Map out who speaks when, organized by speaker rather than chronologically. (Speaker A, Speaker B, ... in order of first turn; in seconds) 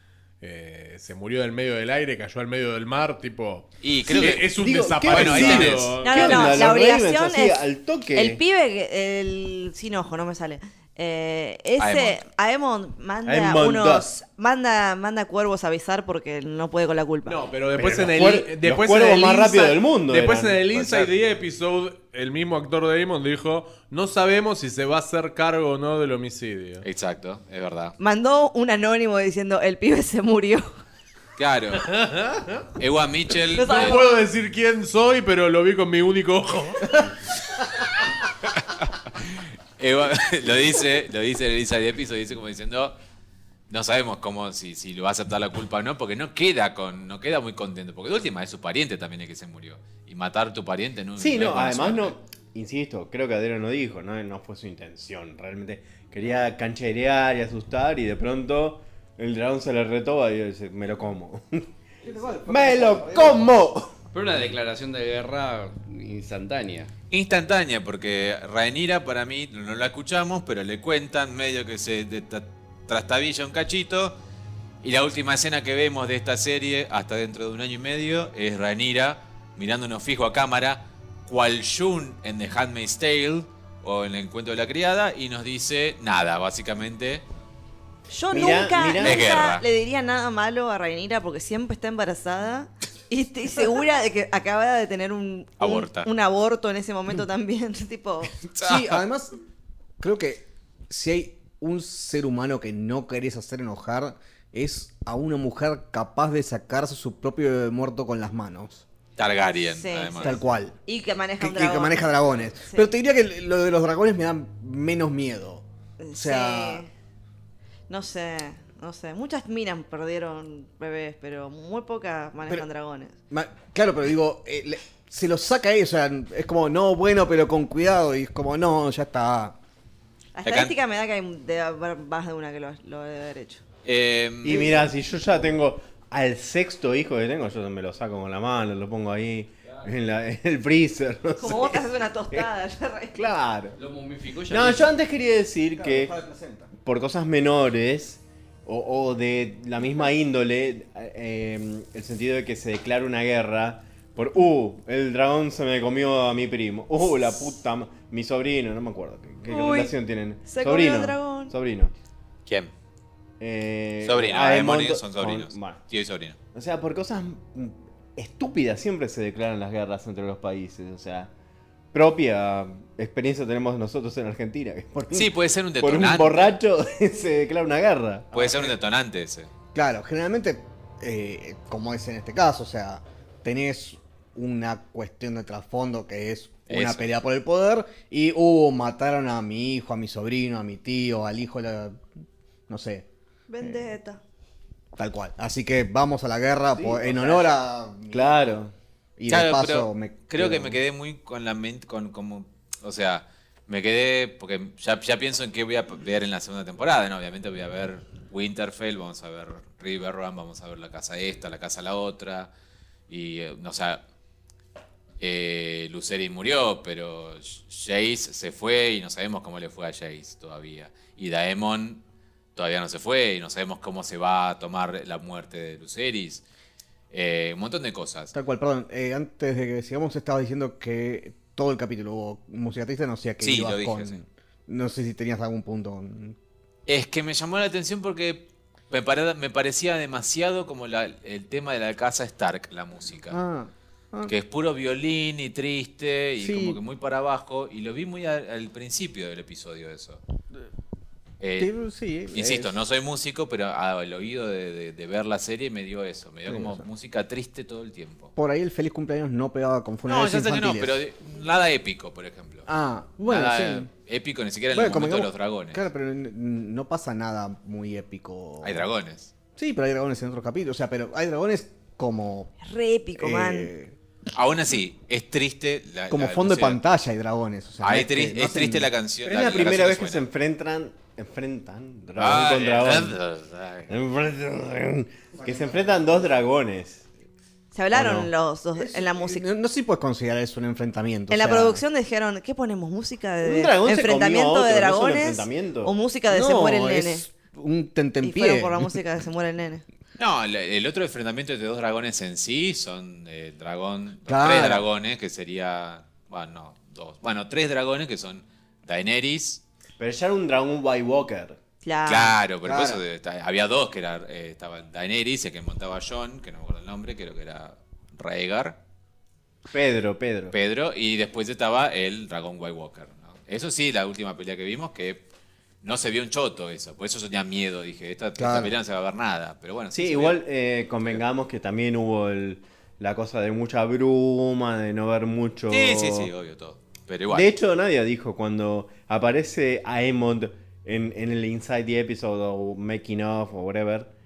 Speaker A: 0.4-6.7, 17.2-26.9, 31.8-32.7, 33.5-37.1
Speaker B: 3.8-4.5, 5.1-6.0, 11.8-12.2, 20.7-21.1, 26.8-27.9, 31.4-31.9, 32.8-34.0, 38.8-43.0, 43.7-52.2, 67.1-74.2, 74.8-87.2, 89.0-89.6, 95.6-96.1, 98.5-99.0, 109.2-110.4, 130.4-130.8, 133.8-134.8, 162.5-162.7, 164.0-166.4, 175.1-176.6, 178.3-179.5, 186.7-187.1, 199.3-212.5, 213.1-214.0, 215.2-222.0, 222.6-226.4, 227.1-228.3, 233.4-234.2, 236.9-243.4, 244.3-250.2, 251.4-251.7, 252.3-258.3, 260.1-262.7, 263.3-265.9, 268.6-269.3, 274.3-276.8, 277.8-280.2, 282.2-283.9, 300.2-309.6, 312.1-318.8, 320.5-325.2, 325.8-330.4, 335.7-337.5
Speaker C: 4.1-8.4, 13.3-14.1, 17.8-20.6, 51.2-61.7, 62.5-64.0, 88.3-89.2, 134.4-142.5, 143.1-143.8, 144.5-146.1, 146.8-161.9, 163.4-165.8, 166.5-171.3, 171.9-178.7, 196.8-197.5, 198.1-198.7, 279.2-283.2, 283.9-287.1, 293.4-295.9, 310.0-311.6, 319.7-320.6, 329.9-336.3, 337.3-344.1
Speaker D: 6.0-17.4, 28.0-30.7, 33.5-34.0, 88.1-98.3, 109.8-112.1, 112.7-112.9, 116.0-116.9, 117.9-123.2, 130.3-133.6, 141.4-143.2, 159.5-161.5, 193.5-194.2, 272.6-273.7, 287.7-289.4, 291.3-297.3, 298.2-299.8, 311.8-312.4
Speaker E: 62.0-63.5, 98.6-99.3, 100.0-108.8, 110.2-110.8, 111.4-116.8, 123.3-129.6, 145.8-146.7, 179.7-192.0, 192.7-193.1, 193.6-193.9, 195.0-198.4, 199.2-200.8, 228.3-236.4, 243.3-244.3, 246.4-246.8, 251.6-252.8, 256.5-256.9, 258.4-261.0, 262.7-263.9, 264.7-268.9, 269.6-272.5, 273.2-274.0, 276.1-278.9, 285.4-286.3, 287.9-291.8, 296.3-298.9, 304.3-304.9, 312.6-313.0, 328.4-328.8
Speaker F: 64.1-66.9, 143.8-145.0